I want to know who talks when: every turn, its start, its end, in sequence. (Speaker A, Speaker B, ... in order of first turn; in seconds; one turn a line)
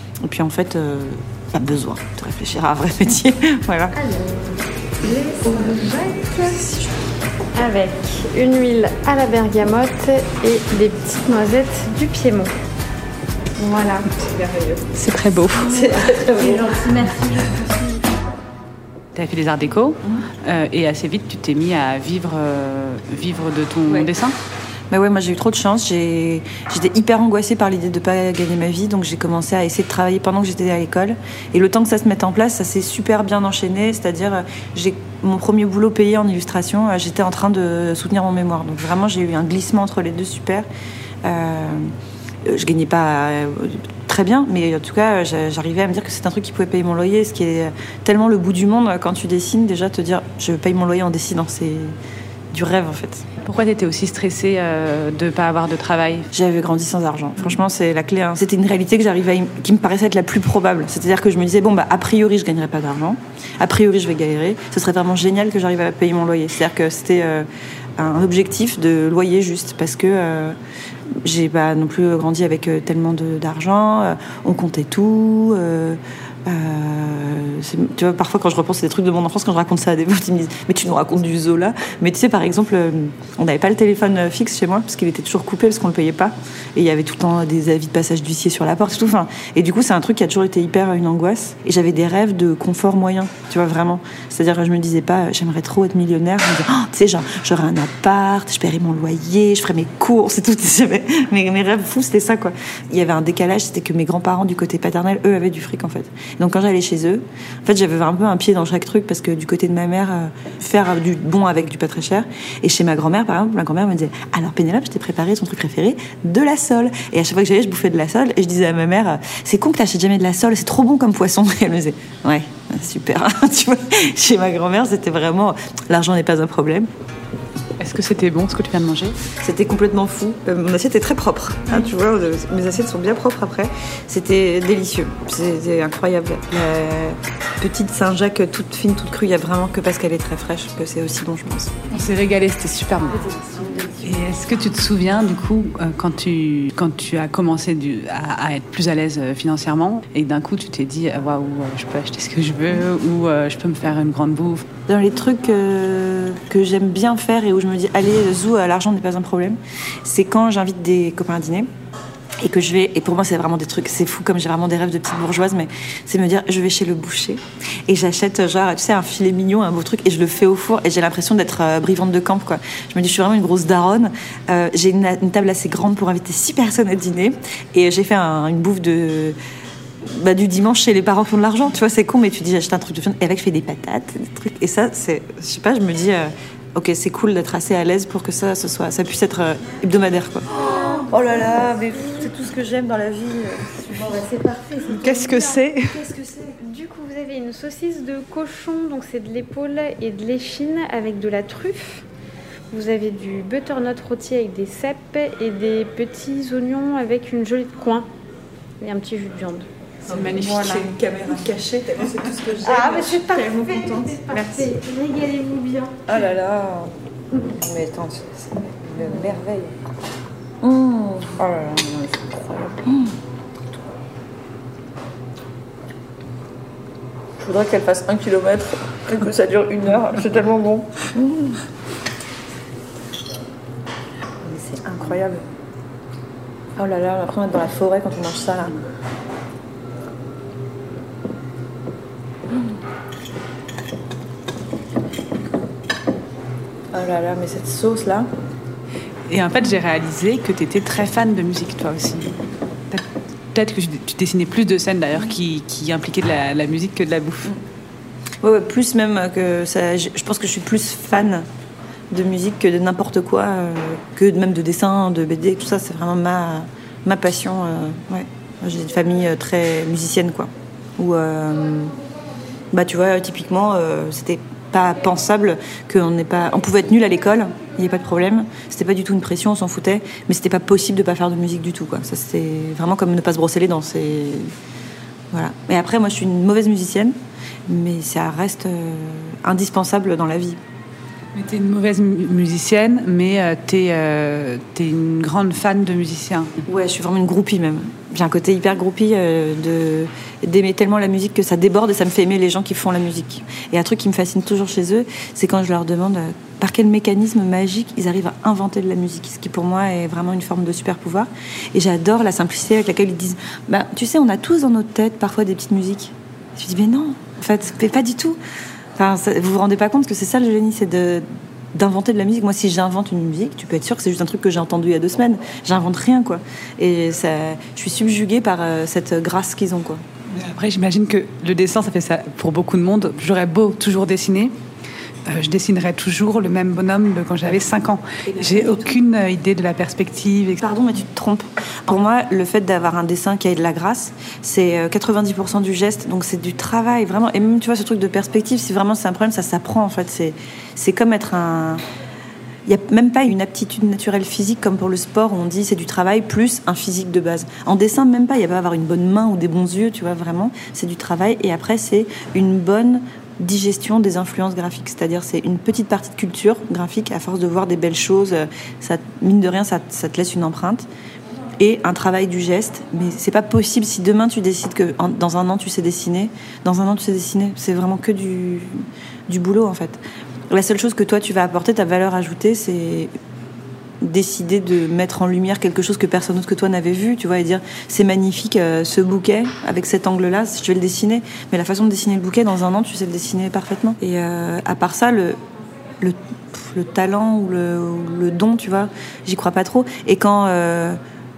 Speaker A: 0.2-4.0
Speaker B: 4.0-6.7
Speaker B: 7.6-12.5
Speaker B: 13.6-14.2
Speaker A: 14.2-14.8
Speaker C: 14.9-15.8
Speaker A: 15.6-17.0
Speaker B: 16.4-17.9
Speaker C: 19.1-24.3
Speaker A: 24.9-40.7
Speaker A: 41.2-41.9
Speaker A: 42.5-52.0
Speaker A: 52.5-53.2
Speaker C: 53.4-56.3
Speaker A: 56.3-67.5
Speaker A: 68.0-70.6
Speaker A: 71.2-126.9
Speaker C: 127.8-129.2
Speaker A: 129.4-141.8
Speaker C: 141.9-143.3
Speaker A: 143.2-144.2
Speaker C: 144.0-154.7
Speaker A: 154.9-161.7
Speaker A: 162.4-179.4
Speaker A: 180.1-194.2
Speaker B: 190.8-191.8
Speaker B: 194.1-202.1
Speaker A: 195.0-195.7
Speaker B: 202.7-208.1
Speaker B: 208.8-209.7
Speaker C: 210.1-210.7
Speaker A: 210.1-214.7
Speaker B: 212.6-216.2
Speaker A: 216.1-216.9
Speaker A: 217.4-219.7
Speaker A: 220.6-223.2
Speaker A: 227.4-231.6
Speaker A: 234.4-235.4
Speaker A: 236.8-238.8
Speaker A: 246.9-248.3
Speaker C: 249.3-252.3
Speaker C: 252.9-257.5
Speaker A: 258.4-261.5
Speaker A: 262.1-271.9
Speaker A: 272.7-284.5
Speaker A: 285.3-287.1
Speaker A: 287.7-290.6
Speaker C: 291.3-296.5
Speaker A: 296.7-318.4
Speaker A: 319.0-330.0
Speaker C: 330.3-334.5
Speaker C: 335.3-340.6
Speaker A: 338.2-339.0
Speaker A: 340.6-351.8
Speaker A: 352.7-370.9
Speaker A: 371.6-383.1
Speaker A: 384.0-395.4
Speaker A: 396.0-401.0